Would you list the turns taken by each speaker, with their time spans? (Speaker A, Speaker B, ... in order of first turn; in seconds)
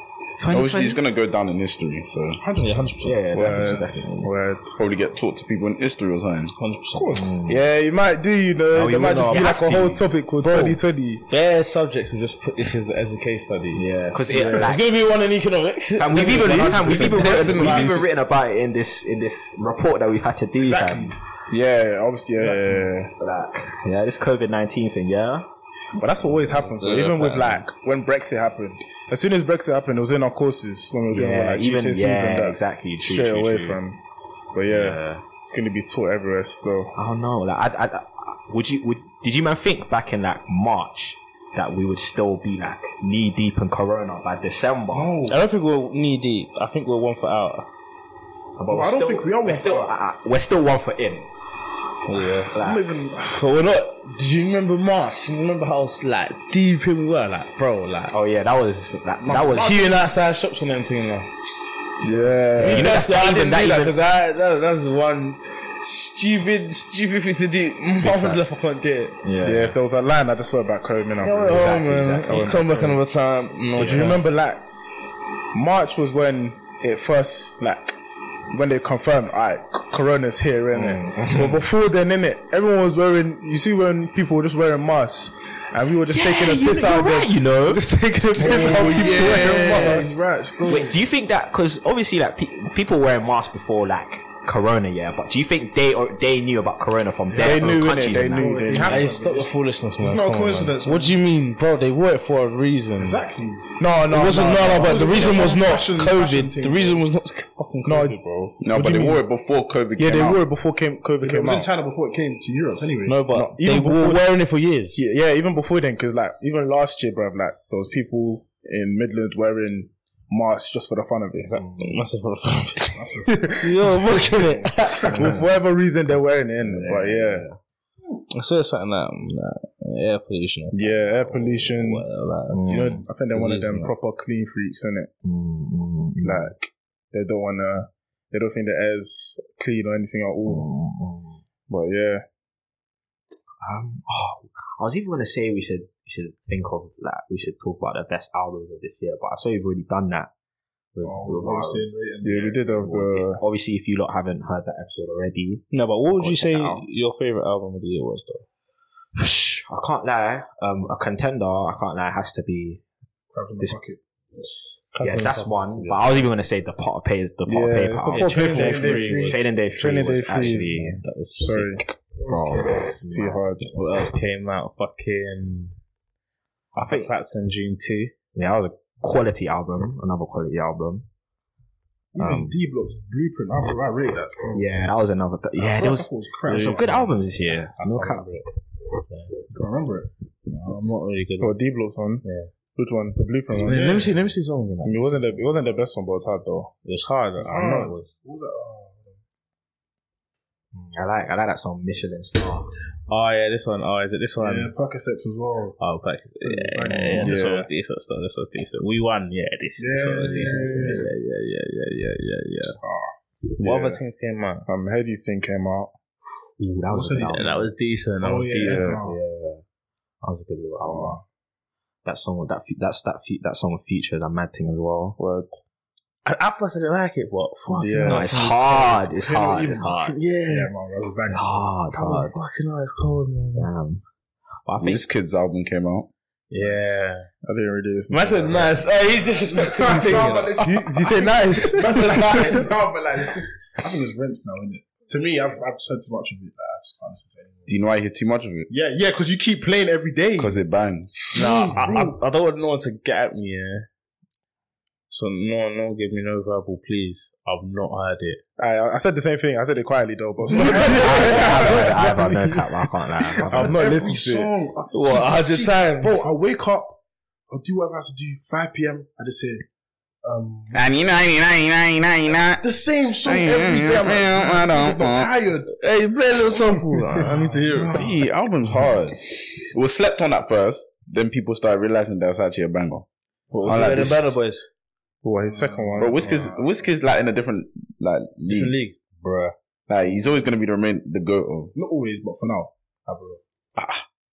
Speaker A: 0.2-1.0, 3.0-4.3, 7.1-7.6, 8.7-10.0, 13.8-14.8, 16.0-21.1, 22.7-25.5, 31.1-33.8, 34.7-35.2, 37.0-45.1, 48.6-51.3, 52.5-52.8, 58.1-59.8, 62.6-64.0, 68.0-68.6, 69.2-69.8, 71.5-72.7, 73.8-74.1, 80.7-81.6, 86.1-90.1, 90.7-98.9, 121.5-122.0, 126.6-127.6, 132.5-133.1, 135.2-136.5, 140.5-141.4, 143.6-150.3, 150.9-151.9, 152.8-156.8, 159.2-162.8, 165.0-168.7, 169.2-171.0, 172.2-173.5, 176.8-177.1, 178.3-181.1, 182.2-182.6, 184.5-188.3, 200.7-202.7, 210.1-211.1, 216.6-217.7, 218.6-219.6, 220.2-221.2, 222.1-225.2, 228.0-230.2, 231.3-232.4, 233.6-234.0, 234.7-235.1, 260.9-263.8
Speaker B: 0.5-2.4, 4.8-6.5, 17.0-18.0, 108.6-110.4, 234.8-236.1, 247.7-248.7, 250.4-251.1, 270.7-272.6, 273.2-275.3, 277.9-283.1, 283.6-284.2, 286.0-288.8, 289.9-291.7, 293.8-294.1
Speaker C: 2.4-4.1, 6.9-7.4, 17.1-18.0, 20.6-21.2, 44.9-45.4, 48.7-49.9, 52.5-53.4, 88.4-91.0, 97.3-101.2, 103.0-103.7, 104.7-107.0, 111.2-113.2, 122.9-123.6, 124.7-125.2, 151.0-152.8, 163.3-164.0, 168.3-169.6, 172.2-173.0, 182.1-184.7, 185.6-187.1, 189.5-190.1, 193.6-194.1, 197.4-199.2, 204.4-205.8, 206.4-207.4, 209.8-211.1, 212.8-213.1, 216.9-217.6, 218.2-219.2, 220.8-221.2, 229.1-231.8, 236.6-237.2, 239.4-247.8, 248.7-250.6, 251.3-252.2, 260.5-262.4, 263.3-269.6, 270.2-271.0, 272.6-275.7, 276.5-278.1, 285.5-286.6, 291.7-293.4
Speaker D: 2.6-3.2, 6.6-7.4, 9.3-13.8, 14.5-18.1, 26.4-27.7, 45.3-47.7, 52.1-52.5, 53.2-58.1, 59.2-61.3, 62.6-69.2, 71.2-74.2, 88.4-90.2, 98.8-103.2, 104.0-108.2, 113.1-115.0, 121.8-125.4, 128.3-132.7, 133.3-133.9, 155.7-158.4, 164.9-166.3, 168.1-171.8, 173.7-175.8, 176.8-178.1, 186.6-188.4, 189.1-189.4, 190.5-191.6, 192.2-192.5, 193.5-195.2, 196.8-198.1, 203.1-204.7, 205.8-212.8, 213.6-214.7, 217.3-219.0, 226.2-229.1, 229.9-230.7, 231.9-233.7, 236.5-237.3, 238.1-242.7, 251.3-253.9, 255.1-258.4, 260.6-262.0, 264.9-266.2, 275.8-278.2, 283.5-284.7, 288.4-289.5
Speaker E: 4.2-4.7, 7.5-11.2, 14.3-14.7, 16.2-17.9, 21.5-23.1, 25.9-34.0, 34.5-36.9, 62.0-62.9, 69.4-73.0, 73.8-74.6, 75.5-78.0, 78.5-90.2, 97.4-99.1, 103.8-105.5, 107.8-109.2, 110.0-111.7, 113.3-114.3, 115.0-121.7, 125.0-127.5, 130.7-132.1, 132.7-135.1, 136.2-140.7, 141.7-142.2, 152.2-153.4, 167.5-170.8, 171.4-171.8, 173.0-173.8, 191.4-192.2, 192.8-194.1, 194.8-196.7, 207.2-207.7, 213.6-214.0, 214.7-215.9, 218.7-218.9, 225.2-225.5, 227.7-228.4, 237.4-238.8, 258.6-262.3, 263.5-264.5, 285.2-286.5